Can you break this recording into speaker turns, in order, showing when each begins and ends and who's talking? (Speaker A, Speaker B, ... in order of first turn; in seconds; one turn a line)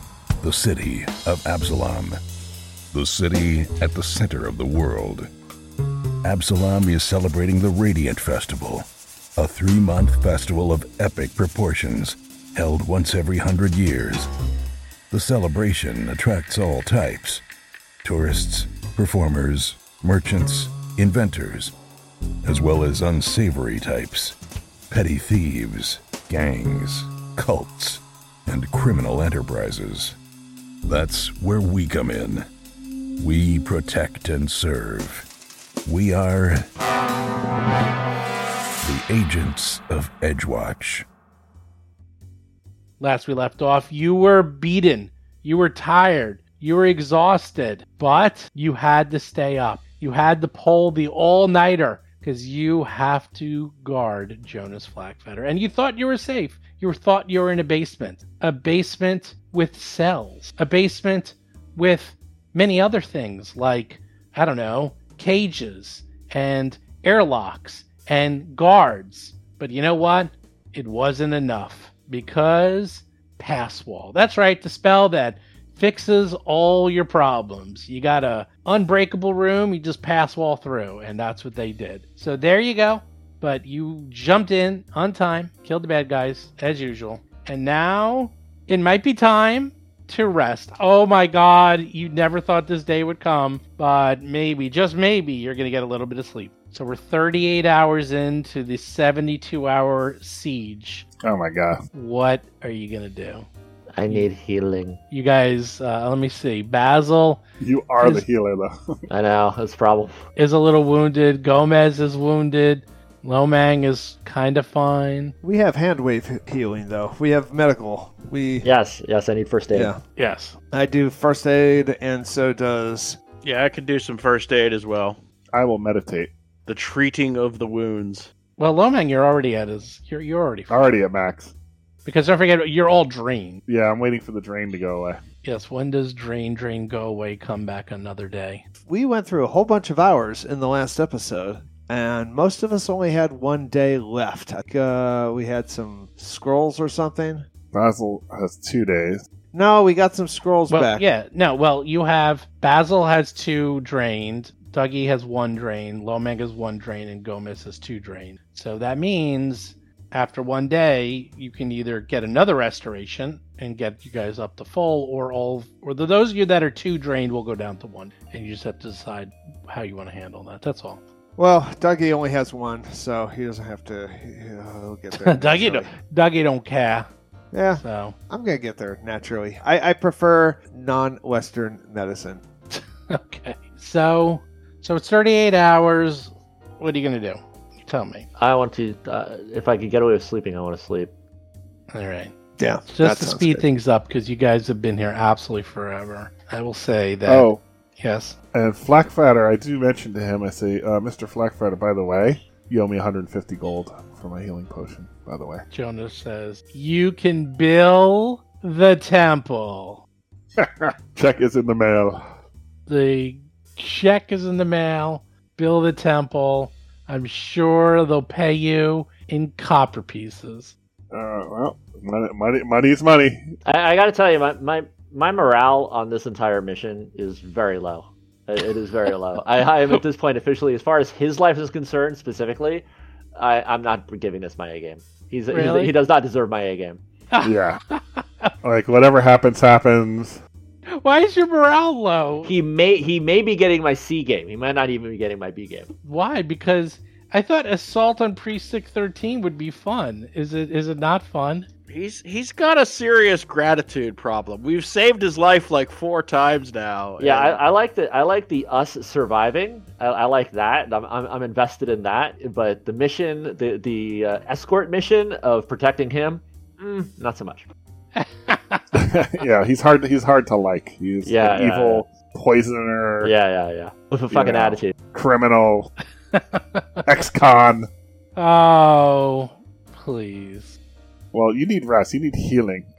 Speaker A: 0.4-2.2
Speaker A: 2.9-5.3
Speaker A: 6.2-14.3
Speaker A: 15.1-17.4
Speaker A: 18.0-21.7
Speaker A: 22.4-24.4
Speaker A: 24.9-30.2
Speaker A: 30.9-32.4
Speaker A: 33.2-35.3
Speaker A: 35.8-36.7
Speaker A: 38.8-41.0
Speaker B: 43.0-101.0
Speaker C: 101.2-101.8
Speaker B: 101.9-103.5
Speaker D: 103.9-105.0
Speaker B: 105.1-107.4
Speaker C: 107.6-108.7
Speaker D: 109.1-110.2
Speaker B: 110.4-115.3
Speaker E: 115.4-118.7
Speaker D: 118.6-119.9
Speaker E: 119.7-120.0
Speaker B: 120.2-120.5
Speaker E: 120.7-123.2
Speaker F: 123.4-125.2
Speaker C: 125.5-126.3
Speaker F: 126.7-128.3
Speaker B: 128.6-130.8
Speaker C: 130.7-131.5
Speaker B: 132.1-133.6
Speaker C: 133.7-135.2
Speaker B: 135.4-138.6
Speaker E: 138.8-147.5
Speaker C: 147.7-149.2
Speaker E: 149.5-151.0
Speaker B: 150.7-171.0
Speaker E: 171.4-175.9
Speaker B: 175.1-177.1
Speaker E: 177.5-182.4
Speaker B: 177.8-178.1
Speaker B: 182.7-188.2
Speaker D: 188.4-191.1
Speaker B: 191.9-192.3
Speaker E: 192.6-193.6
Speaker B: 192.9-198.3
Speaker C: 197.3-197.6
Speaker C: 198.5-205.6
Speaker B: 205.7-210.0
Speaker C: 210.6-212.2
Speaker B: 212.9-220.7
Speaker C: 221.1-223.5
Speaker D: 223.6-237.0
Speaker B: 235.5-235.9
Speaker B: 237.3-238.5
Speaker C: 237.4-237.8
Speaker C: 238.6-240.4
Speaker B: 240.9-242.5
Speaker D: 242.4-245.9
Speaker B: 246.0-251.7
Speaker F: 251.9-257.6
Speaker D: 257.2-267.7
Speaker B: 268.1-269.0
Speaker C: 268.9-273.3
Speaker D: 271.2-272.0
Speaker D: 273.2-274.9
Speaker C: 274.3-275.9
Speaker B: 276.3-277.0
Speaker C: 277.1-277.9
Speaker B: 278.4-280.7
Speaker C: 281.3-282.9